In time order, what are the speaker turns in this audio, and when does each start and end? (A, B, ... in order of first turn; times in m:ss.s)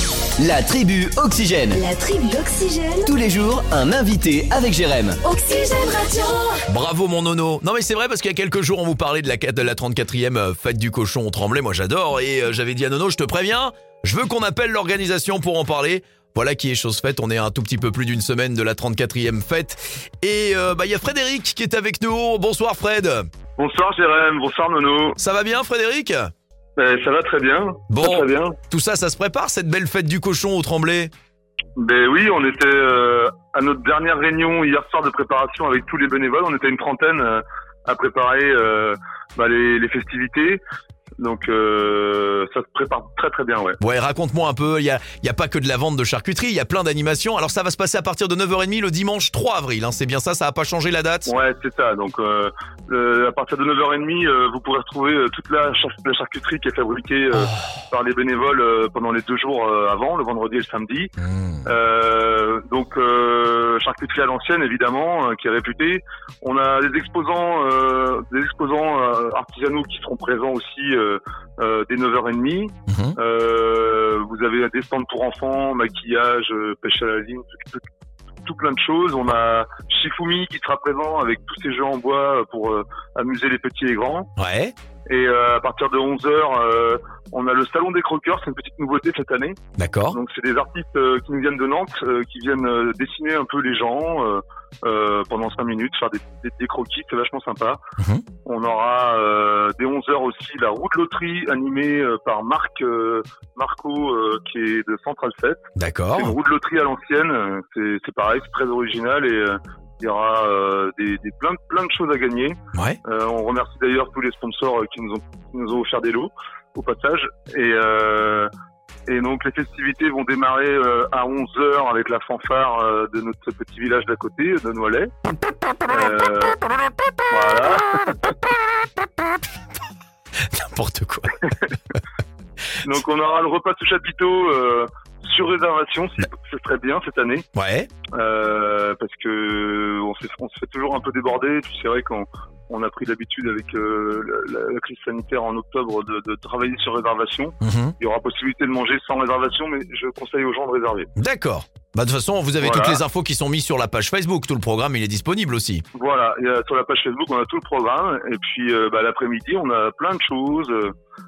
0:00.4-0:01.8 A
0:01.7-0:03.1 B
0:03.0-0:05.2 A
0:05.2-0:06.6 B
0:06.7-0:23.3 C
0:23.6-0:25.2 D
0:25.2-0:26.3 C
0:26.8-0:28.6 D
0:27.9-0:31.1 C
0:31.8-0:40.6 D
0:41.2-0:43.8 D
0:43.8-0:51.3 C
0:51.3-1:01.1 D
1:01.6-1:17.8 D
1:12.9-1:13.2 C
1:18.4-1:24.3 D
1:24.4-1:24.7 C
1:25.1-1:29.6 D
1:29.8-1:30.2 C
1:30.1-1:37.8 D
1:38.0-1:38.2 C
1:38.4-1:45.6 D
1:45.8-1:46.3 C
1:46.2-1:58.5 D
1:59.1-2:05.1 D
2:05.9-2:06.6 D
2:07.3-2:08.2 D
2:10.5-2:11.5 C
2:12.8-2:17.4 D
2:17.5-2:17.9 C
2:18.1-2:31.1 D
2:27.6-2:27.9 C
2:31.2-2:35.8 C
2:32.6-2:33.0 D
2:35.9-2:40.9 D